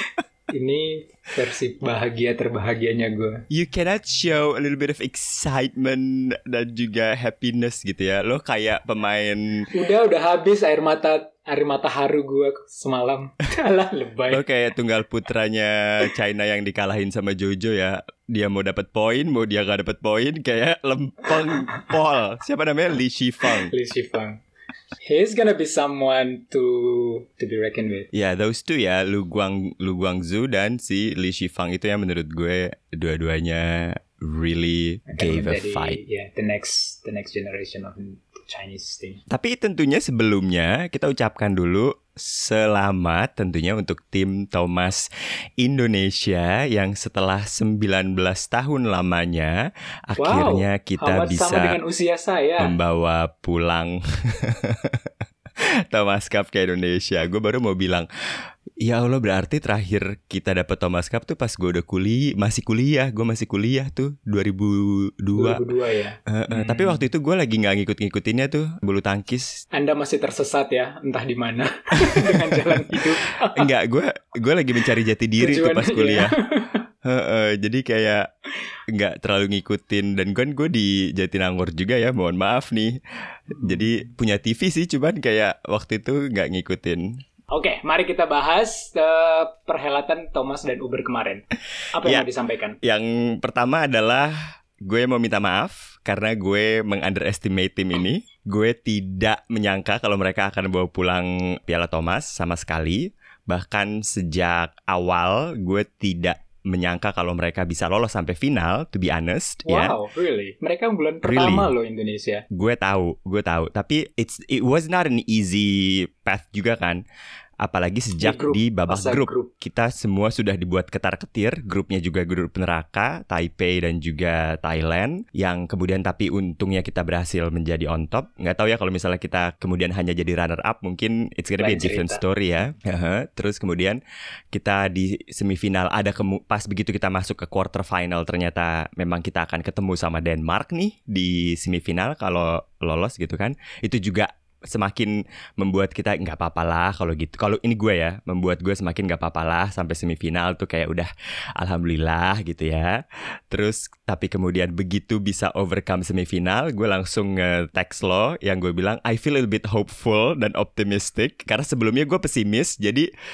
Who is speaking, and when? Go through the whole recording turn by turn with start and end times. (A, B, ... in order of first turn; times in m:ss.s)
0:00.5-0:03.4 A
0:03.5-0:09.7 B
0:09.7-0:14.4 A
0:14.3-0:23.7 B
0:23.7-0:24.4 A
0:25.0-0:28.1 A
0:28.1-0:36.0 B
0:35.1-0:39.2 A
0:39.3-0:45.1 B
0:45.6-0:49.6 B
0:50.1-0:51.8 B
0:50.2-0:52.8 A
0:52.6-0:55.0 B
0:55.9-0:58.1 B
0:58.8-1:05.6 B
1:05.4-1:07.0 A
1:06.3-1:09.6 B
1:09.7-1:13.7 A
1:12.1-1:13.0 B
1:13.5-1:16.3 B
1:15.4-1:16.8 A
1:17.0-1:18.3 B
1:18.9-1:27.1 B
1:27.5-1:32.8 A
1:32.8-1:50.0 B
1:49.6-1:52.4 A
1:51.2-1:51.7 B
1:52.5-1:57.0 B
1:57.6-2:14.0 B
1:58.2-1:59.5 A
2:11.6-2:12.2 A
2:14.5-2:43.1 B